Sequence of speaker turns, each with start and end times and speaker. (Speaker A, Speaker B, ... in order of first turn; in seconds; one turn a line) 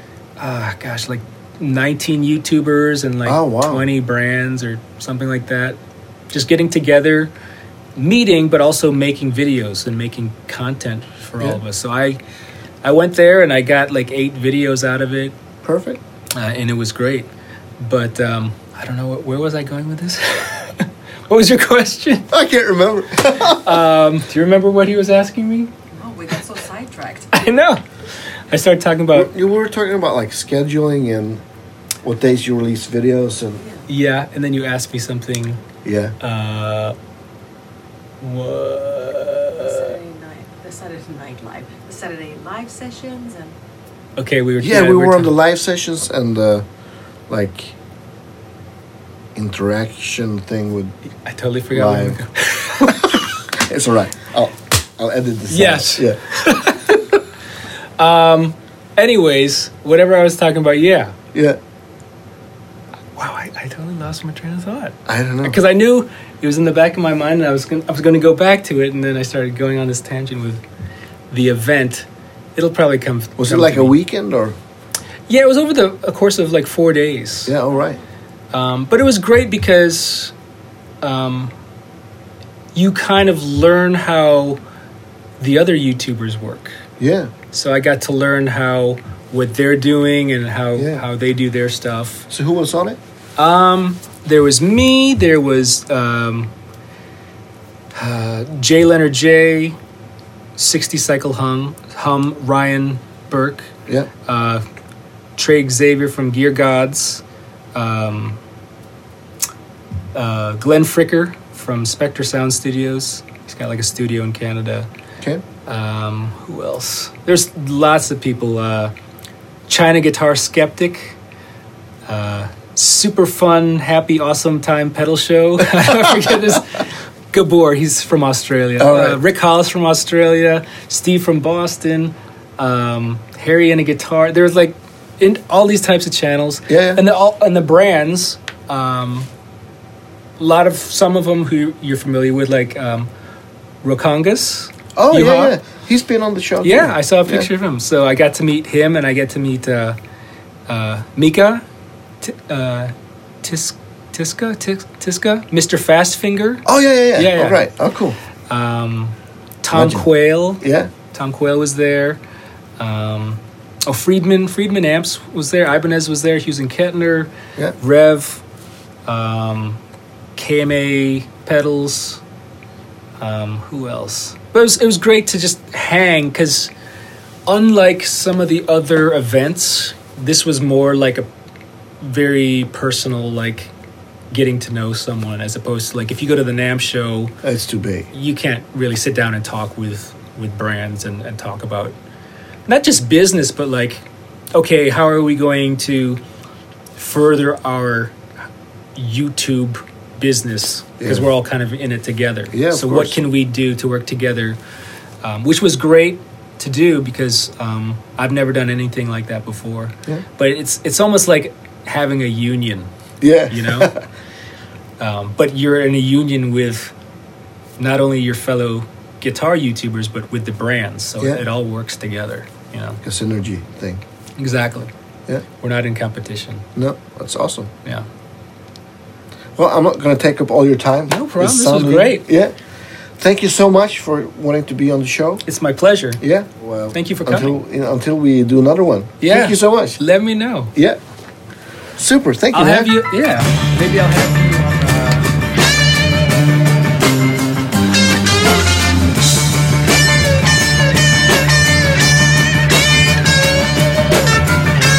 Speaker A: 0.4-5.8
Speaker B: 3.2-3.8
Speaker A: 6.3-7.3
Speaker A: 8.0-12.2
Speaker A: 12.8-15.3
Speaker B: 15.6-16.0
Speaker A: 16.3-22.3
Speaker B: 22.3-23.8
Speaker A: 23.2-25.7
Speaker C: 25.9-27.3
Speaker A: 27.3-29.3
Speaker B: 29.1-31.4
Speaker B: 32.0-33.6
Speaker A: 33.9-35.6
Speaker B: 35.8-36.1
Speaker A: 36.2-37.0
Speaker A: 38.2-39.9
Speaker C: 39.6-43.5
Speaker A: 44.2-45.3
Speaker B: 44.6-46.6
Speaker B: 47.3-47.8
Speaker B: 49.3-50.9
Speaker A: 51.2-53.3
Speaker B: 51.7-52.2
Speaker B: 52.8-56.2
Speaker A: 55.5-57.2
Speaker A: 58.0-61.1
Speaker A: 63.1-70.6
Speaker B: 65.0-65.6
Speaker A: 71.3-74.0
Speaker B: 73.4-74.6
Speaker A: 75.3-77.5
Speaker B: 77.5-78.0
Speaker A: 78.5-80.3
Speaker A: 81.0-81.5
Speaker A: 82.7-84.6
Speaker A: 85.4-86.8
Speaker B: 87.0-87.3
Speaker A: 87.5-92.3
Speaker B: 90.8-91.0
Speaker B: 92.3-93.0
Speaker A: 93.4-96.5
Speaker A: 97.9-99.8
Speaker A: 100.5-103.7
Speaker A: 104.2-104.6
Speaker A: 105.4-107.2
Speaker A: 107.7-108.4
Speaker A: 110.1-114.9
Speaker A: 115.7-118.9
Speaker A: 119.7-121.2
Speaker A: 122.1-139.3
Speaker B: 125.8-126.6
Speaker B: 128.8-129.2
Speaker B: 136.7-137.0
Speaker A: 140.4-143.1
Speaker A: 143.8-145.6
Speaker B: 144.9-147.5
Speaker A: 146.6-150.0
Speaker A: 150.7-151.6
Speaker A: 152.2-157.6
Speaker B: 156.7-158.2
Speaker A: 158.5-162.2
Speaker B: 159.7-160.1
Speaker B: 160.6-160.9
Speaker A: 162.8-168.4
Speaker A: 169.1-169.8
Speaker A: 170.3-172.2
Speaker A: 173.2-176.7
Speaker A: 177.4-181.3
Speaker A: 182.0-183.7
Speaker A: 184.3-187.3
Speaker B: 187.4-188.1
Speaker A: 188.1-191.9
Speaker A: 192.7-196.2
Speaker A: 196.9-198.2
Speaker A: 198.9-204.6
Speaker B: 201.0-201.3
Speaker B: 202.5-203.2
Speaker A: 205.2-212.9
Speaker B: 213.2-214.0
Speaker A: 213.5-213.9
Speaker A: 215.0-216.9
Speaker A: 217.8-223.0
Speaker B: 223.0-224.0
Speaker A: 224.4-224.9
Speaker A: 225.6-226.7
Speaker B: 226.8-227.7
Speaker B: 229.6-232.6
Speaker A: 231.1-232.2
Speaker B: 233.2-235.4
Speaker A: 235.4-236.2
Speaker B: 236.2-240.0
Speaker A: 236.9-237.6
Speaker A: 239.2-240.7
Speaker B: 241.9-242.9
Speaker A: 242.5-245.4